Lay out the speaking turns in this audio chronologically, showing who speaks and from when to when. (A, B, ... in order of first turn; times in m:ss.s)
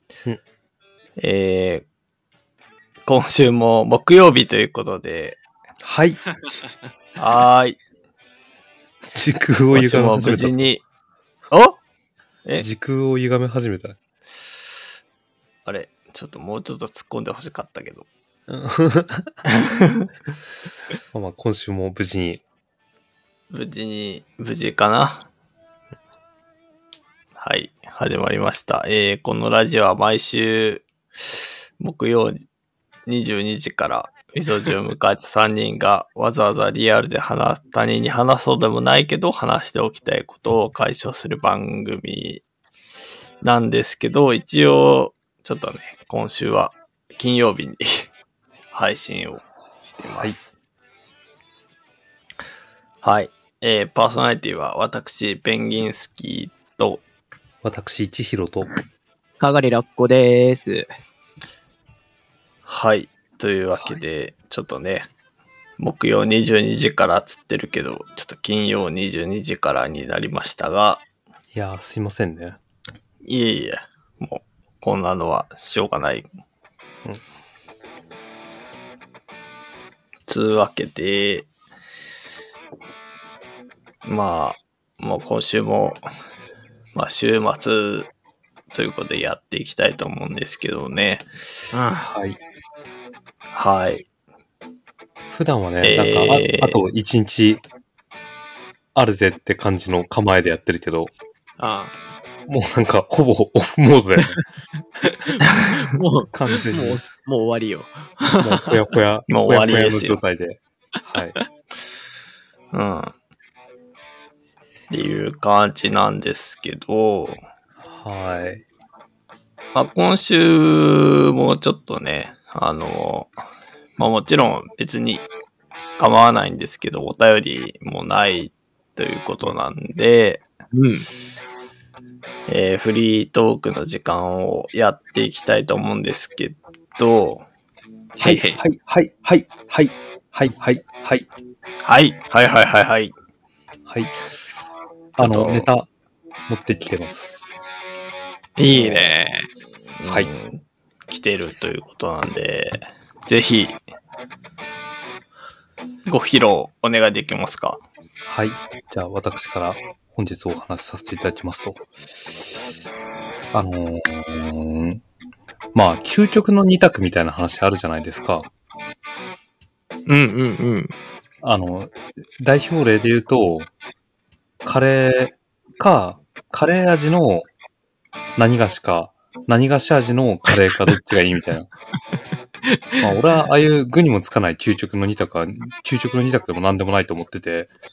0:01.2-0:01.8 A
0:03.0-0:05.4 A
0:05.8-0:06.2 B
0:07.2-0:07.8 A
0:09.1-0:10.7 B
0:09.7-0:10.8 A
0:11.5-0:11.8 A
0:12.6-0:14.0 B
0:15.6-0:18.1 A
0:18.5-0:19.4 B
0:19.6-0:20.1 A
0:21.1-0:22.4 B
0:23.5-0:25.3 A
0:27.4-0:30.8 A
0:31.8-0:32.4 A
0:33.1-0:42.4 A
0:43.4-0:48.1 A
0:48.7-0:50.5 A
0:53.0-0:57.0 A
0:57.6-0:58.7 B
0:59.4-1:00.9 C
1:02.6-1:05.1 A
1:05.8-1:11.0 A
1:11.5-1:12.6 B
1:13.2-1:16.3 A
1:20.3-1:21.5 A
1:24.0-1:26.0 A
1:26.9-1:28.1 A
1:28.7-1:31.3 A
1:31.7-1:32.1 C
1:32.0-1:32.4 B
1:33.5-1:34.0 A
1:35.3-1:37.6 B
1:35.8-1:36.8 A
1:38.9-1:41.1 B
1:41.6-1:41.9 C
1:42.5-1:44.4 B
1:45.0-1:48.8 C
1:46.3-1:47.0 B
1:48.4-1:51.4 B
1:49.3-1:50.2 A
1:52.7-1:53.1 A
1:54.9-1:57.4 A
1:57.8-1:58.6 B
1:59.7-2:03.4 A
2:04.0-2:05.2 A
2:06.0-2:10.4 A
2:10.7-2:11.1 C
2:12.5-2:17.4 A
2:18.2-2:18.6 C
2:18.2-2:21.3 B
2:21.8-2:23.1 A
2:23.9-2:24.1 B
2:25.2-2:25.7 A
2:25.2-2:25.9 B
2:26.5-2:27.5 B
2:28.6-2:29.5 C
2:28.7-2:29.1 A
2:30.0-2:33.8 A
2:36.0-2:37.8 A
2:38.3-2:42.6 B
2:43.5-2:45.0 B
2:45.7-2:48.5 B
2:50.1-2:50.9 C
2:51.4-2:53.7 B
2:54.6-2:57.5 B
2:58.4-3:01.7 B
3:02.7-3:03.0 C
3:03.0-3:07.7 B